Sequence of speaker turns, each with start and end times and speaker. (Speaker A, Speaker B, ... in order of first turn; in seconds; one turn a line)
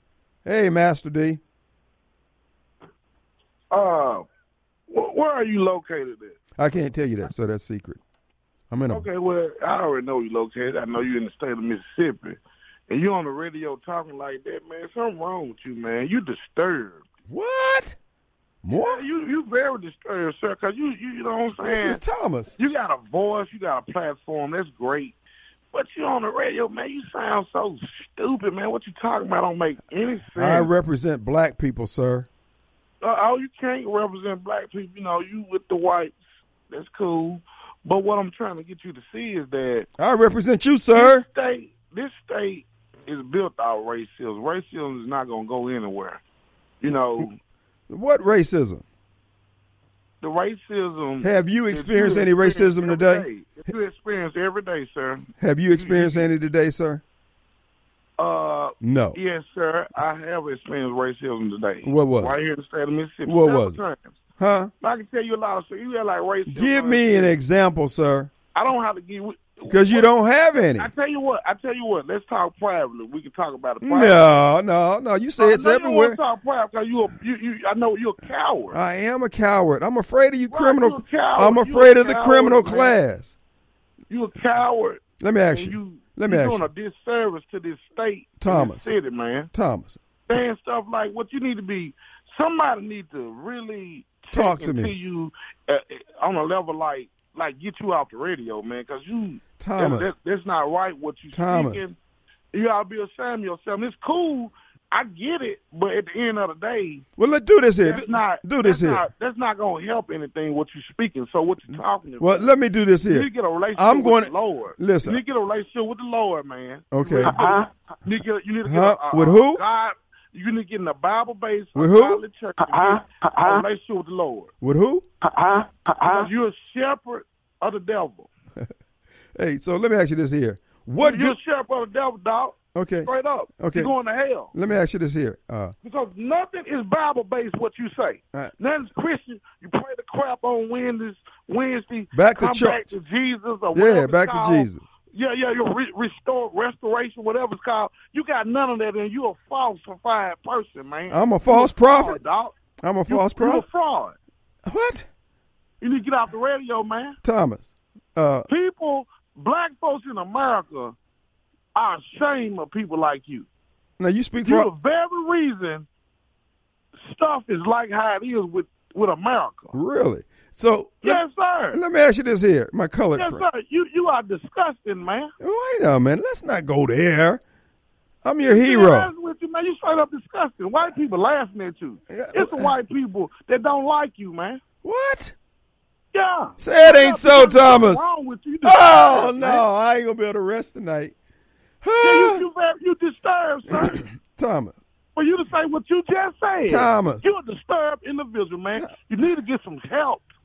Speaker A: 0.4-1.4
Speaker B: 3.7-4.2
Speaker B: 4.9-6.4
Speaker A: 6.6-8.0
Speaker A: 8.7-9.1
Speaker B: 8.9-17.0
Speaker A: 17.3-18.0
Speaker A: 18.6-19.0
Speaker B: 18.7-22.0
Speaker A: 21.6-22.5
Speaker B: 22.6-25.2
Speaker B: 25.7-30.7
Speaker A: 30.3-32.3
Speaker B: 33.0-39.9
Speaker A: 40.0-41.2
Speaker B: 40.9-46.2
Speaker B: 46.8-47.4
Speaker A: 47.9-48.8
Speaker B: 50.2-56.3
Speaker A: 51.2-53.2
Speaker A: 55.4-57.0
Speaker B: 58.2-64.2
Speaker A: 58.8-59.2
Speaker A: 61.8-62.3
Speaker A: 63.2-63.8
Speaker A: 64.4-64.7
Speaker B: 64.8-67.3
Speaker A: 66.5-68.3
Speaker B: 68.5-70.1
Speaker A: 69.7-70.9
Speaker B: 70.8-74.3
Speaker A: 73.8-76.2
Speaker B: 75.4-78.8
Speaker A: 78.7-83.3
Speaker B: 80.5-83.0
Speaker B: 84.1-89.5
Speaker A: 85.2-86.6
Speaker A: 88.4-88.9
Speaker A: 89.5-90.0
Speaker B: 90.3-102.0
Speaker A: 94.3-94.9
Speaker A: 99.6-100.1
Speaker A: 101.3-101.9
Speaker B: 102.5-107.0
Speaker A: 107.2-109.0
Speaker B: 107.8-112.5
Speaker A: 112.2-115.2
Speaker B: 113.0-124.5
Speaker A: 116.9-117.3
Speaker A: 118.6-119.6
Speaker A: 121.7-122.2
Speaker A: 124.6-125.0
Speaker B: 126.0-128.3
Speaker A: 129.3-131.3
Speaker B: 131.0-134.5
Speaker A: 132.7-133.9
Speaker A: 134.5-135.7
Speaker B: 135.8-152.5
Speaker A: 142.1-142.9
Speaker A: 143.7-144.8
Speaker A: 151.1-152.2
Speaker A: 152.8-153.6
Speaker B: 153.1-154.1
Speaker A: 154.7-155.1
Speaker B: 155.8-157.2
Speaker A: 157.2-158.5
Speaker B: 158.5-160.9
Speaker B: 161.7-163.5
Speaker A: 164.0-164.7
Speaker B: 164.4-165.8
Speaker B: 167.0-169.7
Speaker A: 169.7-173.4
Speaker B: 171.0-171.8
Speaker B: 173.2-175.3
Speaker A: 175.4-177.4
Speaker A: 178.2-179.1
Speaker B: 178.4-184.6
Speaker A: 182.1-182.7
Speaker A: 184.8-185.3
Speaker B: 186.1-189.7
Speaker A: 186.6-188.0
Speaker A: 188.6-191.1
Speaker A: 191.8-192.4
Speaker B: 192.0-194.0
Speaker A: 193.7-194.8
Speaker B: 195.2-200.3
Speaker A: 196.7-197.3